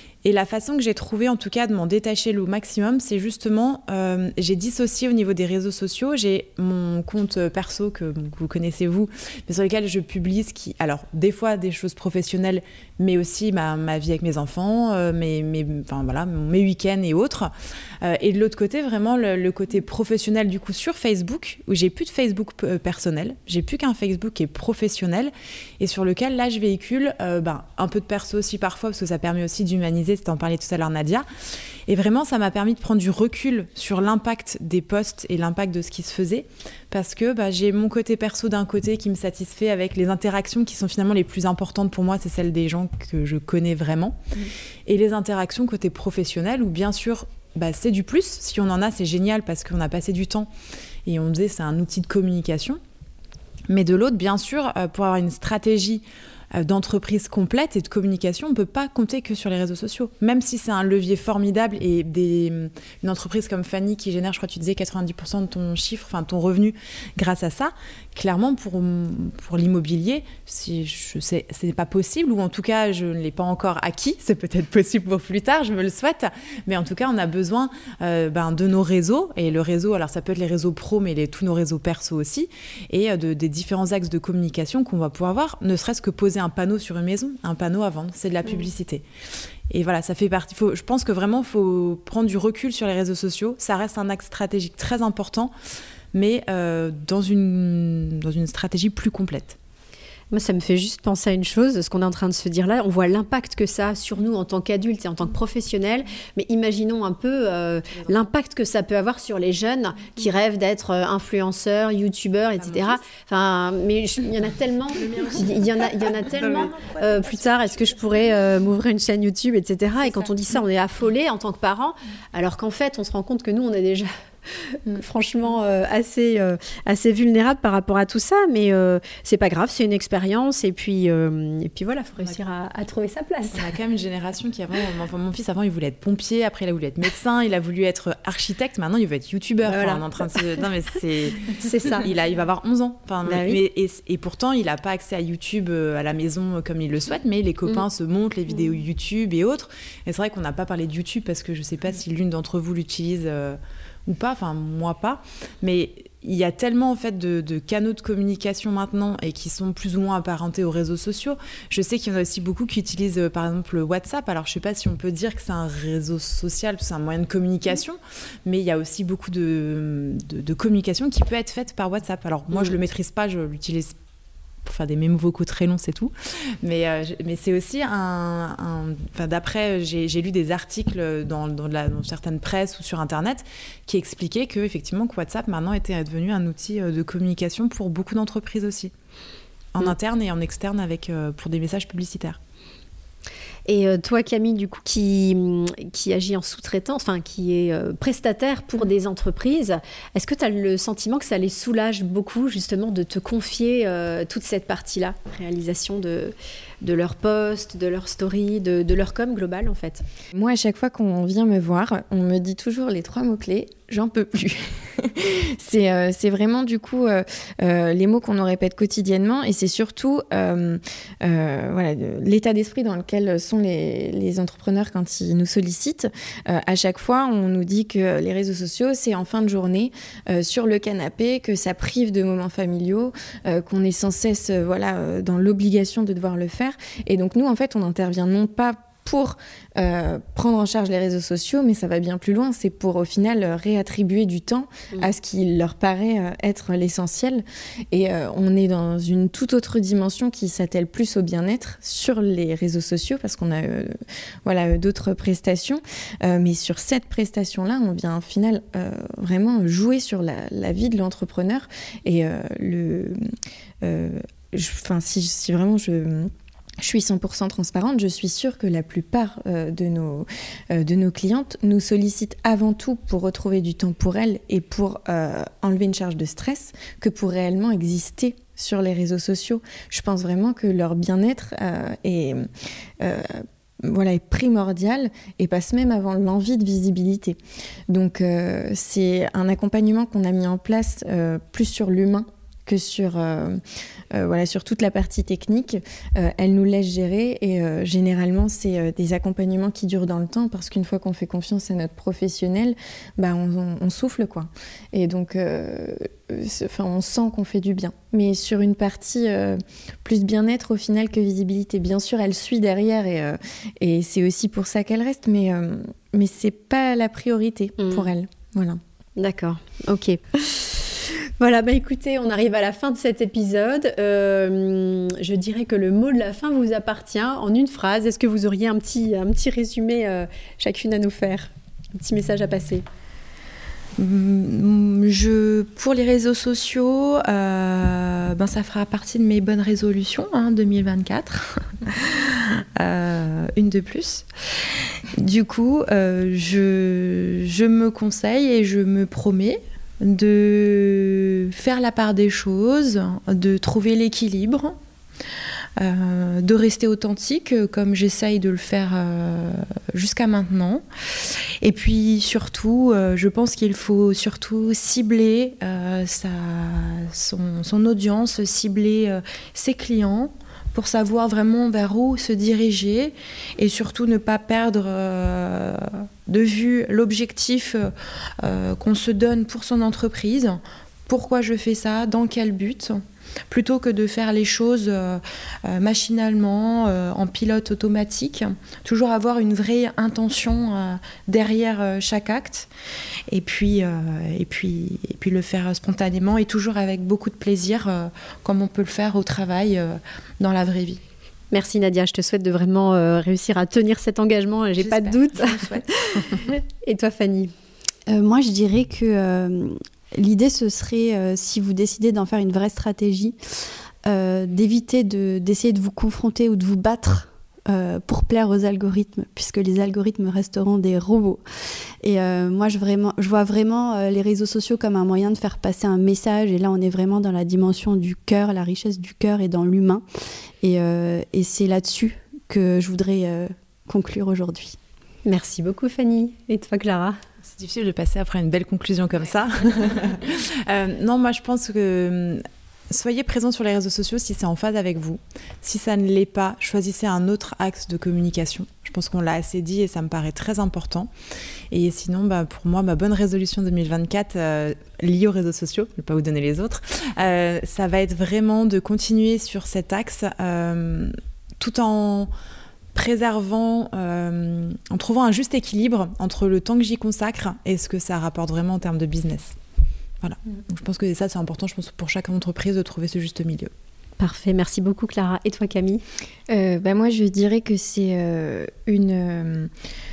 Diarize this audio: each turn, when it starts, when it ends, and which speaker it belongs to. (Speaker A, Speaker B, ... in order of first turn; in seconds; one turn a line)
Speaker A: 0.2-17.5
Speaker A: 18.0-31.2
Speaker A: 31.9-50.5
Speaker A: 51.0-52.8
Speaker A: 53.7-56.0
Speaker A: 56.5-89.0
Speaker A: 89.7-95.5
Speaker A: 96.1-99.6
Speaker B: 100.3-124.1
Speaker C: 115.0-115.5
Speaker C: 116.0-118.2
Speaker C: 120.0-120.3
Speaker B: 124.7-133.7
Speaker A: 133.5-173.9
Speaker B: 139.6-140.5
Speaker B: 141.5-142.1
Speaker B: 143.2-143.6
Speaker A: 174.6-188.9
Speaker A: 189.7-192.4
Speaker B: 193.7-210.0
Speaker D: 210.3-263.2
Speaker D: 263.8-282.5
Speaker D: 283.0-287.4
Speaker D: 287.9-293.6
Speaker D: 294.1-318.8
Speaker B: 317.8-318.1
Speaker B: 319.2-332.8
Speaker C: 334.0-344.3
Speaker C: 345.1-354.8
Speaker C: 355.8-392.7
Speaker C: 393.3-401.0
Speaker B: 401.5-407.5
Speaker C: 404.8-406.4
Speaker E: 408.1-413.3
Speaker E: 414.1-421.4
Speaker E: 422.0-430.0
Speaker E: 430.6-434.8
Speaker B: 435.2-437.2
Speaker A: 437.5-451.1
Speaker A: 451.7-462.3
Speaker A: 462.9-469.6
Speaker A: 470.2-473.7
Speaker B: 474.2-476.0
Speaker D: 476.5-479.7